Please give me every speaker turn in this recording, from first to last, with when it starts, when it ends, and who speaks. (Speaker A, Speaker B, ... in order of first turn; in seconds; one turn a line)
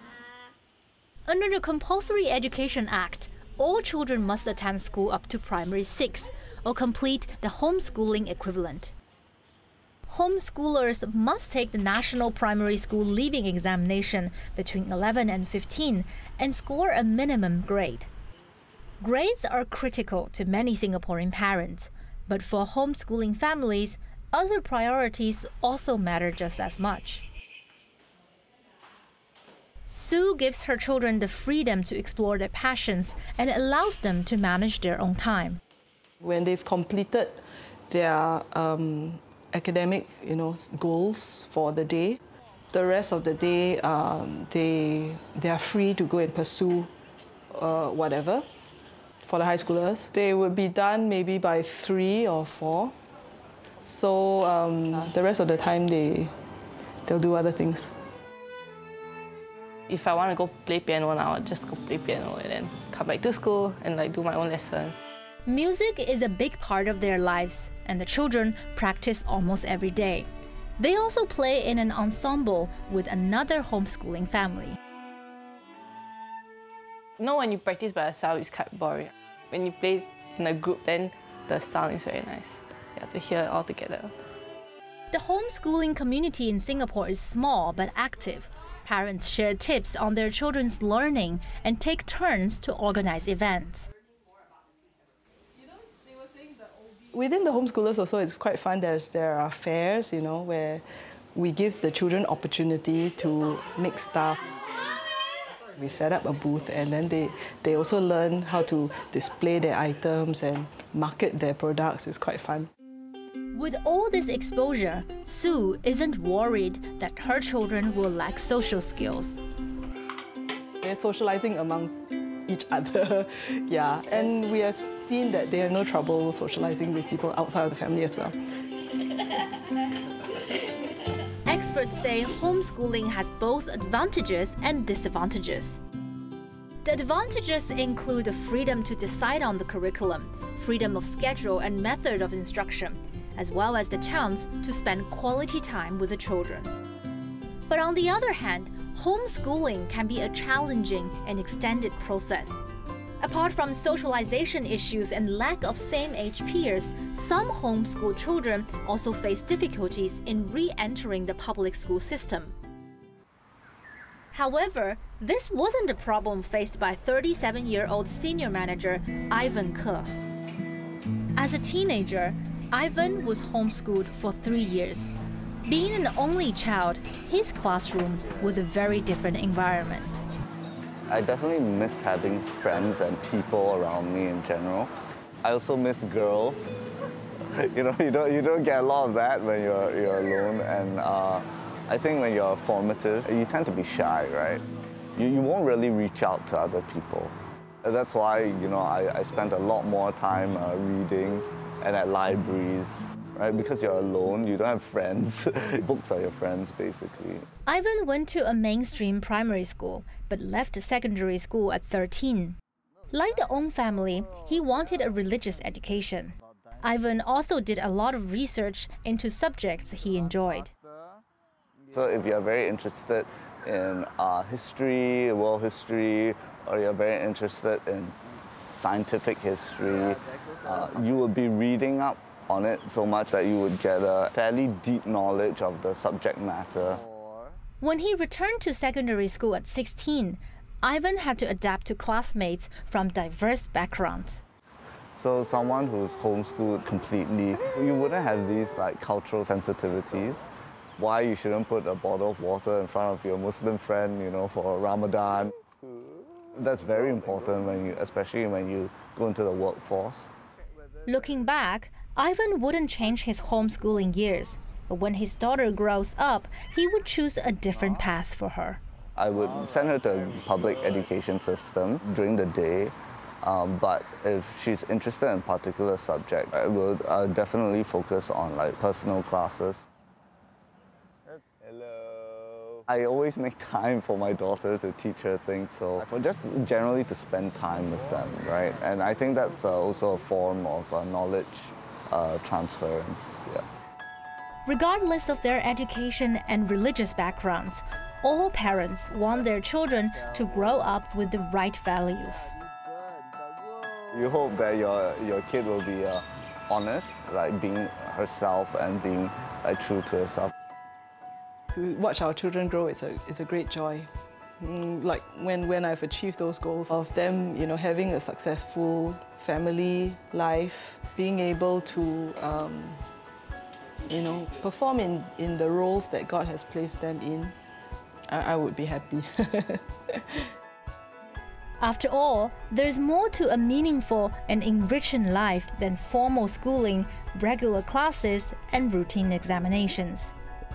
Speaker A: 1.3-8.9
Speaker A: 10.1-18.1
Speaker A: 19.0-27.2
Speaker A: 29.9-35.6
Speaker B: 36.2-42.2
Speaker B: 42.7-46.9
Speaker B: 47.5-48.5
Speaker B: 49.2-52.9
Speaker B: 53.8-56.3
Speaker B: 57.1-57.9
Speaker C: 59.9-65.0
Speaker A: 65.4-70.3
Speaker A: 70.8-74.8
Speaker C: 77.2-84.1
Speaker A: 85.1-93.9
Speaker B: 97.1-100.8
Speaker B: 101.3-104.4
Speaker B: 105.8-112.7
Speaker A: 113.5-119.4
Speaker B: 120.8-128.4
Speaker A: 131.4-135.8
Speaker A: 136.8-146.7
Speaker A: 147.7-152.7
Speaker A: 153.2-162.6
Speaker A: 164.3-170.1
Speaker A: 171.4-175.1
Speaker A: 175.7-180.2
Speaker D: 181.1-184.9
Speaker D: 185.4-186.7
Speaker D: 187.6-194.6
Speaker D: 195.2-207.5
Speaker A: 207.7-212.6
Speaker A: 213.1-220.7
Speaker D: 221.9-228.2
Speaker D: 228.7-237.0
Speaker A: 237.8-244.4
Speaker D: 245.1-255.5
Speaker D: 256.5-260.3
Speaker A: 261.1-268.8
Speaker D: 269.2-279.9
Speaker D: 282.9-293.6
Speaker A: 294.7-302.5
Speaker D: 304.1-310.5
Speaker B: 311.7-314.1
Speaker B: 314.6-323.0
Speaker B: 324.1-327.5
Speaker B: 328.3-330.5
Speaker A: 331.8-340.3